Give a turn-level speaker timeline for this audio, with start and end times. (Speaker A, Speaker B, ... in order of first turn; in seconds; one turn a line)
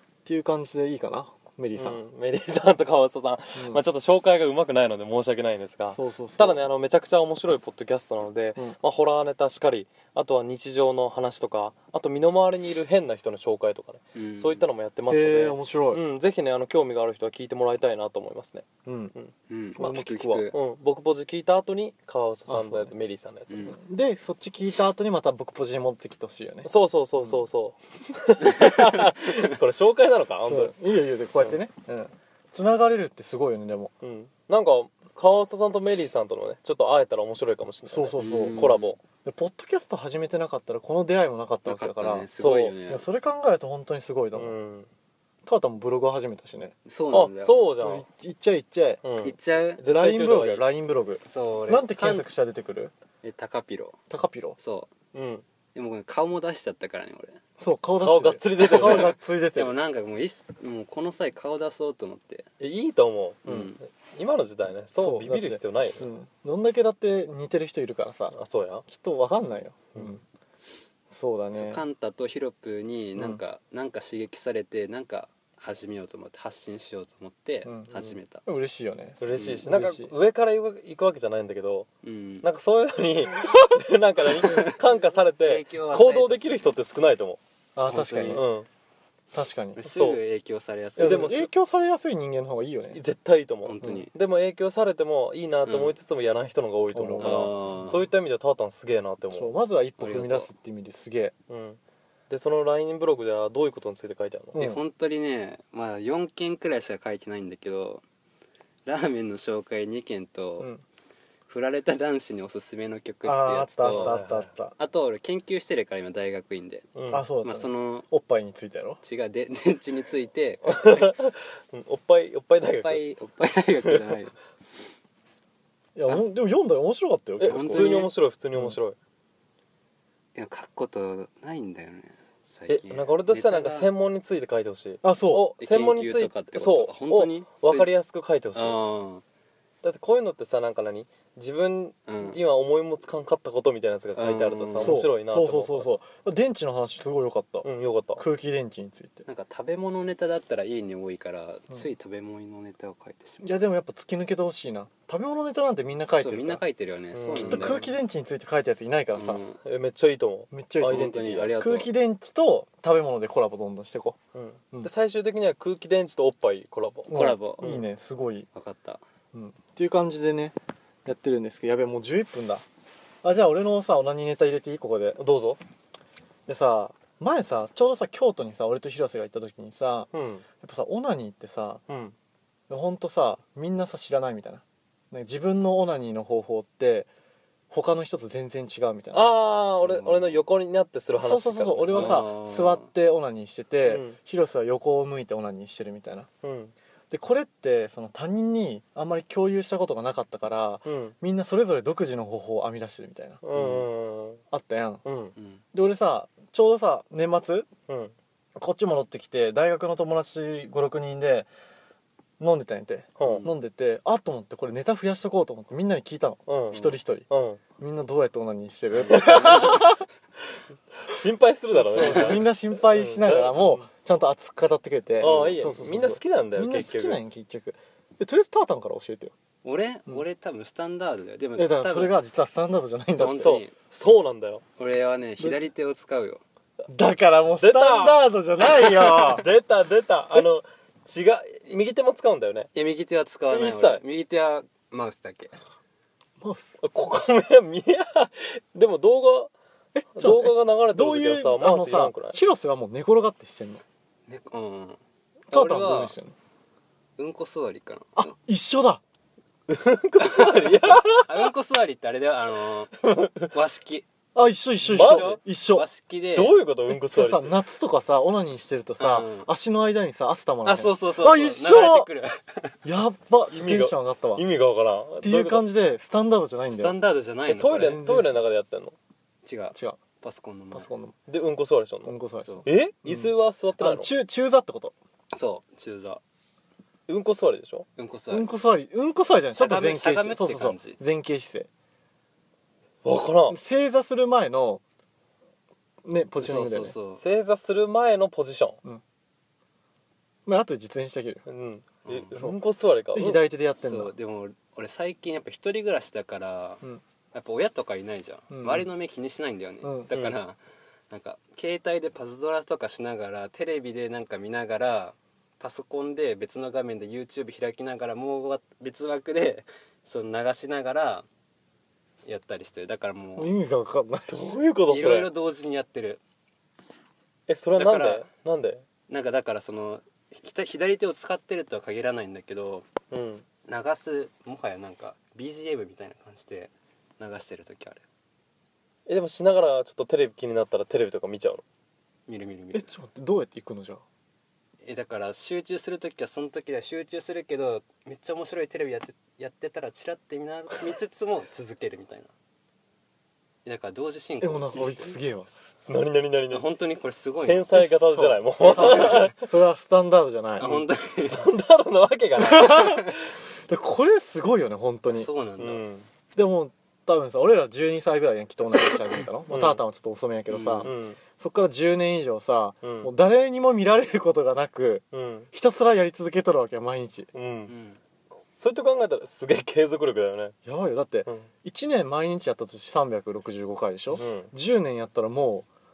Speaker A: 0.2-2.0
Speaker B: 1.8-19.3
Speaker A: 3.5-3.8
Speaker A: 5.9-6.7
Speaker C: 14.2-14.6
Speaker A: 15.1-16.0
Speaker A: 18.8-19.1
Speaker C: 19.5-20.6
Speaker A: 19.8-20.4
Speaker B: 20.5-23.7
Speaker A: 22.5-22.9
Speaker C: 23.5-23.7
Speaker A: 23.6-27.4
Speaker B: 26.6-30.7
Speaker A: 30.4-33.9
Speaker B: 34.0-39.0
Speaker A: 37.9-38.7
Speaker C: 38.2-38.9
Speaker A: 39.2-42.3
Speaker C: 41.6-43.1
Speaker B: 42.4-42.8
Speaker A: 42.9-44.6
Speaker B: 44.3-44.9
Speaker A: 45.5-46.7
Speaker C: 46.9-47.6
Speaker B: 47.1-48.1
Speaker A: 47.8-49.0
Speaker B: 49.0-50.7
Speaker C: 49.2-49.9
Speaker A: 49.9-52.9
Speaker C: 51.2-52.3
Speaker C: 53.2-54.0
Speaker A: 54.1-54.6
Speaker C: 54.6-54.9
Speaker B: 55.1-55.4
Speaker C: 55.7-57.4
Speaker A: 57.6-59.8
Speaker B: 58.0-59.1
Speaker C: 58.6-62.5
Speaker B: 62.6-66.1
Speaker C: 63.5-63.8
Speaker A: 63.5-63.7
Speaker A: 65.0-68.3
Speaker B: 68.3-68.9
Speaker A: 68.9-70.2
Speaker B: 69.9-70.2
Speaker A: 71.1-71.8
Speaker C: 71.5-78.4
Speaker A: 73.2-73.4
Speaker A: 77.7-80.1
Speaker B: 79.2-81.9
Speaker C: 79.3-79.7
Speaker C: 82.0-82.5
Speaker B: 82.4-87.4
Speaker C: 84.4-84.7
Speaker C: 85.4-86.4
Speaker A: 87.7-88.4
Speaker C: 87.9-88.4
Speaker B: 88.3-88.7
Speaker A: 89.3-89.8
Speaker C: 89.8-91.3
Speaker B: 89.8-90.2
Speaker B: 91.0-91.5
Speaker A: 91.0-93.0
Speaker B: 92.9-99.5
Speaker C: 93.6-94.1
Speaker C: 95.7-95.9
Speaker A: 96.9-97.6
Speaker C: 97.2-98.0
Speaker A: 99.3-101.3
Speaker C: 100.0-100.5
Speaker B: 101.5-101.8
Speaker B: 102.3-104.6
Speaker A: 104.5-104.8
Speaker C: 104.5-108.0
Speaker C: 108.8-110.7
Speaker C: 111.5-114.2
Speaker A: 113.2-114.8
Speaker B: 113.9-114.5
Speaker C: 114.8-116.9
Speaker B: 116.9-117.3
Speaker A: 117.1-119.0
Speaker C: 117.4-118.1
Speaker C: 119.0-121.2
Speaker B: 120.7-123.0
Speaker C: 122.7-124.3
Speaker B: 123.8-124.1
Speaker A: 126.0-127.9
Speaker B: 127.4-128.9
Speaker C: 127.4-128.1
Speaker C: 130.3-133.9
Speaker B: 132.7-138.8
Speaker A: 135.0-135.5
Speaker C: 135.6-137.9
Speaker C: 138.6-139.2
Speaker B: 139.8-146.0
Speaker C: 142.1-142.4
Speaker C: 144.2-145.0
Speaker A: 144.8-149.2
Speaker B: 147.6-148.2
Speaker C: 149.3-153.5
Speaker A: 153.4-156.6
Speaker C: 156.2-157.9
Speaker B: 157.2-157.9
Speaker A: 157.3-159.5
Speaker C: 159.2-159.6
Speaker B: 159.6-161.6
Speaker A: 160.5-164.2
Speaker C: 160.8-161.9
Speaker B: 164.3-167.8
Speaker C: 167.1-167.7
Speaker A: 167.1-168.5
Speaker C: 168.5-169.0
Speaker A: 169.3-172.6
Speaker A: 173.2-175.2
Speaker B: 175.2-175.6
Speaker A: 176.5-180.1
Speaker B: 180.1-180.4
Speaker A: 180.6-181.8
Speaker B: 181.9-182.1
Speaker A: 182.7-187.1
Speaker A: 187.7-189.3
Speaker B: 189.1-192.1
Speaker C: 189.8-190.4
Speaker A: 191.2-196.3
Speaker C: 191.9-192.9
Speaker B: 193.8-194.2
Speaker B: 196.4-196.7
Speaker A: 197.1-203.4
Speaker B: 200.8-201.2
Speaker B: 203.4-204.4
Speaker C: 203.5-203.9
Speaker A: 204.5-205.0
Speaker B: 205.1-205.3
Speaker C: 205.3-205.6
Speaker A: 205.7-207.7
Speaker B: 207.9-208.1
Speaker A: 208.6-211.5
Speaker A: 212.4-217.3
Speaker B: 213.2-213.4
Speaker C: 213.2-213.5
Speaker B: 216.4-217.6
Speaker A: 217.8-219.9
Speaker B: 219.0-219.9
Speaker C: 219.2-219.7
Speaker B: 221.0-223.8
Speaker A: 221.8-229.3
Speaker C: 222.0-222.4
Speaker B: 225.2-227.2
Speaker C: 225.2-225.7
Speaker C: 229.6-232.2
Speaker A: 231.6-233.6
Speaker C: 233.2-233.7
Speaker B: 233.3-234.6
Speaker C: 234.8-236.4
Speaker A: 236.9-239.5
Speaker B: 237.6-242.7
Speaker C: 242.7-245.5
Speaker B: 243.5-244.0
Speaker A: 246.4-246.8
Speaker B: 246.8-249.5
Speaker A: 249.9-253.8
Speaker B: 250.2-252.4
Speaker C: 254.3-256.1
Speaker A: 255.5-256.3
Speaker C: 257.2-258.3
Speaker A: 258.2-259.0
Speaker B: 259.7-261.5
Speaker C: 260.2-264.1
Speaker B: 263.0-263.5
Speaker A: 264.3-265.9
Speaker B: 264.8-265.4
Speaker C: 264.9-266.6
Speaker B: 266.3-267.6
Speaker A: 266.9-272.1
Speaker C: 269.0-269.5
Speaker C: 270.6-272.8
Speaker A: 272.8-274.4
Speaker B: 273.5-275.6
Speaker A: 275.2-277.0
Speaker C: 276.7-278.1
Speaker B: 277.5-278.9
Speaker A: 277.8-278.4
Speaker C: 279.4-280.9
Speaker A: 279.7-280.0
Speaker A: 280.7-281.1
Speaker B: 281.3-282.1
Speaker A: 282.1-284.9
Speaker B: 282.7-284.1
Speaker C: 285.3-286.2
Speaker B: 287.1-287.9
Speaker C: 288.0-288.5
Speaker A: 288.3-291.7
Speaker C: 289.5-291.0
Speaker B: 293.0-293.6
Speaker A: 293.5-294.8
Speaker A: 296.1-296.9
Speaker C: 296.4-297.2
Speaker B: 297.2-298.8
Speaker A: 300.4-301.4
Speaker B: 301.4-303.4
Speaker C: 302.1-302.3
Speaker A: 302.3-302.6
Speaker A: 303.1-304.1
Speaker C: 303.8-310.6
Speaker A: 308.5-308.9
Speaker A: 309.8-310.1
Speaker B: 310.1-310.4
Speaker C: 311.1-321.3
Speaker C: 322.2-323.5
Speaker A: 323.4-324.4
Speaker B: 324.3-325.3
Speaker C: 324.9-326.2
Speaker B: 327.5-328.8
Speaker C: 327.7-328.3
Speaker C: 329.1-332.9
Speaker B: 333.1-333.4
Speaker C: 333.6-338.0
Speaker B: 339.1-341.6
Speaker C: 342.3-342.9
Speaker A: 342.7-344.0
Speaker C: 344.8-352.3
Speaker C: 353.6-355.2
Speaker A: 354.4-355.5
Speaker B: 355.7-356.7
Speaker C: 356.5-357.8
Speaker B: 357.4-359.5
Speaker A: 357.7-360.9
Speaker C: 358.7-359.3
Speaker B: 360.6-363.1
Speaker C: 360.6-361.5
Speaker A: 362.4-363.1
Speaker C: 362.8-363.1
Speaker A: 363.7-365.3
Speaker C: 365.1-365.8
Speaker B: 365.6-366.1
Speaker A: 366.3-377.3
Speaker B: 369.5-369.8
Speaker C: 370.5-370.9
Speaker B: 370.8-371.2
Speaker B: 372.8-373.1
Speaker B: 375.1-375.5
Speaker B: 377.3-377.7
Speaker C: 377.7-378.0
Speaker B: 378.5-380.6
Speaker A: 380.6-385.7
Speaker B: 384.1-384.5